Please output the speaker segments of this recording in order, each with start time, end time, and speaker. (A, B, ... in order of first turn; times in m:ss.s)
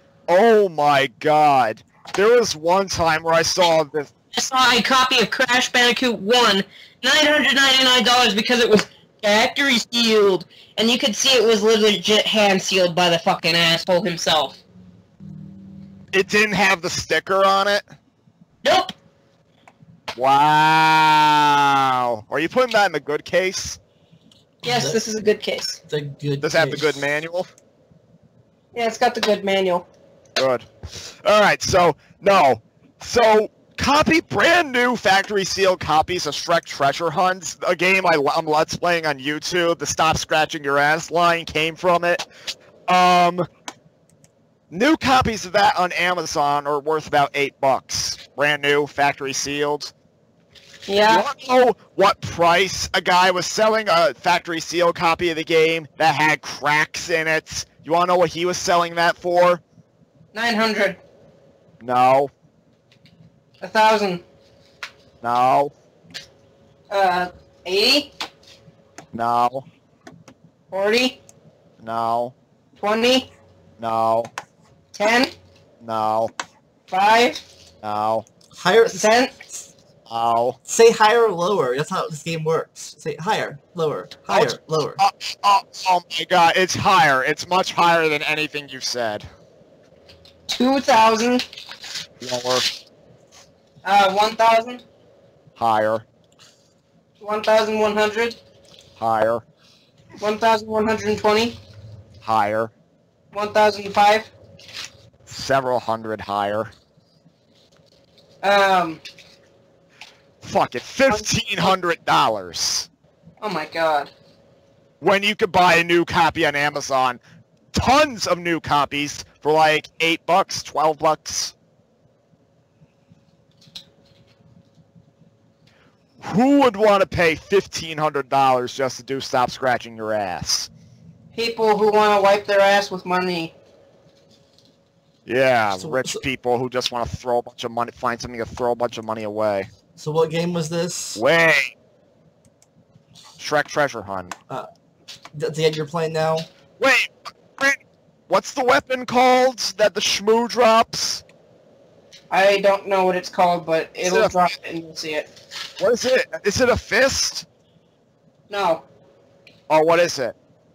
0:00.3-0:04.1 A
0:04.3-0:14.6 B
0:16.1-0:17.9 A
0:18.6-0:18.9 B
0:20.1-0:23.8 A
0:24.6-0:25.8 B
0:24.6-0:25.0 C
0:25.9-0:27.0 C
0:26.4-0:27.5 A
0:28.7-0:29.8 B
0:30.4-0:42.2 A
0:42.9-0:43.4 A
0:44.7-0:49.9 A
0:50.9-0:51.2 B
0:51.1-0:59.6 A
1:00.3-1:01.0 B
1:01.8-1:02.3 A
1:03.6-1:04.2 B
1:05.2-1:05.7 A
1:06.9-1:08.1 B
1:09.1-1:09.6 A
1:10.7-1:11.2 B
1:11.8-1:12.3 A
1:12.8-1:13.3 B
1:13.8-1:14.3 A
1:14.9-1:15.3 B
1:15.8-1:16.3 A
1:16.9-1:17.4 B
1:17.8-1:18.2 A
1:18.5-1:19.7 C
1:18.8-1:19.3 B
1:20.1-1:20.6 A
1:20.6-1:25.0 C
1:24.3-1:29.3 A
1:30.5-1:31.4 B
1:32.2-1:32.6 A
1:33.8-1:34.8 B
1:35.6-1:36.0 A
1:37.2-1:38.4 B
1:39.0-1:39.4 A
1:40.2-1:41.6 B
1:42.2-1:42.7 A
1:43.3-1:44.3 B
1:45.3-1:46.7 A
1:48.4-1:49.0 B
1:50.4-1:52.9 A
1:53.4-1:54.1 B
1:55.0-1:57.2 A
1:57.7-2:01.5 A
2:06.2-2:10.7 A
2:11.3-2:13.5 B
2:15.2-2:19.7 A
2:15.8-2:16.2 C
2:20.0-2:21.2 C
2:21.2-2:21.7 A
2:23.4-2:24.3 A
2:25.3-2:26.5 C
2:26.8-2:31.2 A
2:32.3-2:35.3 B
2:34.0-2:34.4 A
2:35.8-2:37.4 A
2:38.5-2:38.8 B
2:39.7-2:40.3 A